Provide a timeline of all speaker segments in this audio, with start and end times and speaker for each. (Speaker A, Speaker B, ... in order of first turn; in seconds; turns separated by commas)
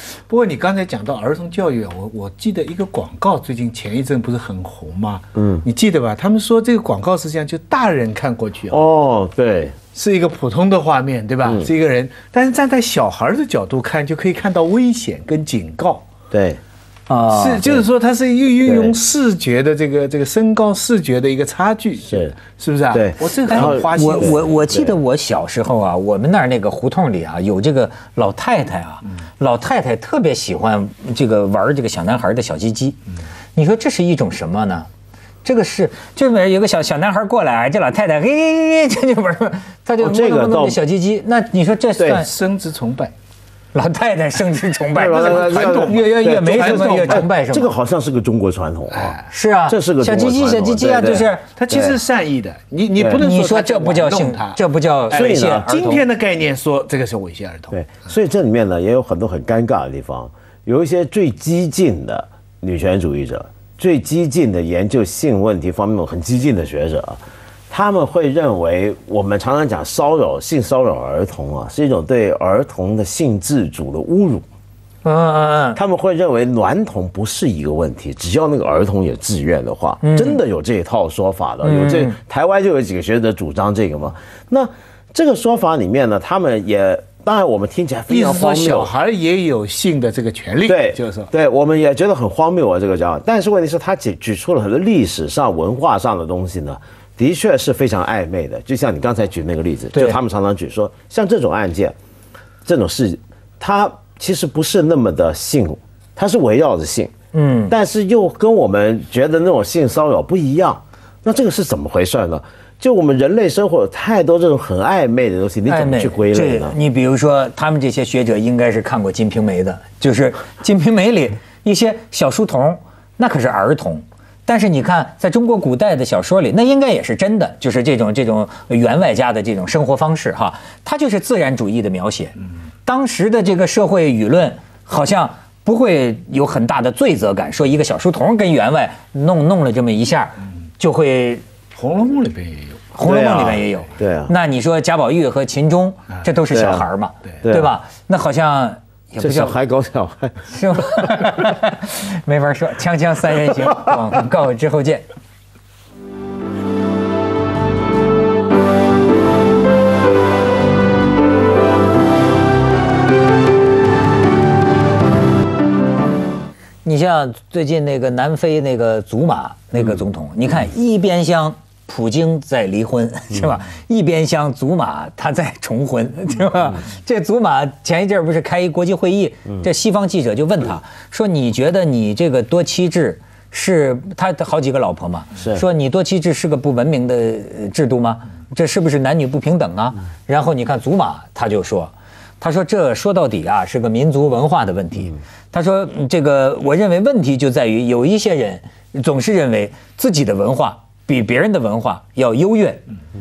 Speaker A: 0.3-8.8, Speaker B: 5.3-5.6, Speaker B: 8.7-9.8, Speaker A: 9.9-16.1, Speaker B: 16.3-16.6, Speaker C: 17.1-17.7, Speaker A: 17.3-24.7, Speaker B: 18.6-18.9, Speaker B: 22.1-22.3, Speaker B: 22.9-25.0, Speaker C: 23.5-33.0, Speaker C: 33.5-34.9, Speaker C: 35.4-42.3, Speaker B: 40.0-40.8, Speaker B: 42.0-42.2, Speaker A: 42.1-43.1, Speaker C: 43.7-47.7, Speaker B: 44.9-49.1, Speaker A: 45.1-47.3, Speaker A: 48.9-49.2, Speaker C: 49.3-51.5, Speaker B: 49.7-52.0, Speaker A: 51.5-57.9, Speaker B: 53.0-53.2, Speaker C: 53.1-56.0, Speaker B: 55.1-55.7, Speaker B: 57.7-74.4, Speaker C: 75.0-75.8, Speaker B: 75.8-88.9, Speaker C: 80.0-80.4, Speaker C: 81.6-82.2, Speaker A: 88.1-91.3, Speaker B: 90.7-101.9, Speaker B: 102.6-107.1, Speaker C: 107.3-107.7, Speaker B: 107.7-116.8, Speaker C: 115.7-141.4, Speaker A: 141.8-142.9, Speaker C: 142.9-149.6, Speaker B: 143.0-144.3, Speaker B: 146.5-146.9, Speaker B: 147.4-147.7, Speaker B: 149.2-151.2, Speaker C: 150.5-155.1, Speaker C: 166.8-202.8, Speaker B: 185.3-185.6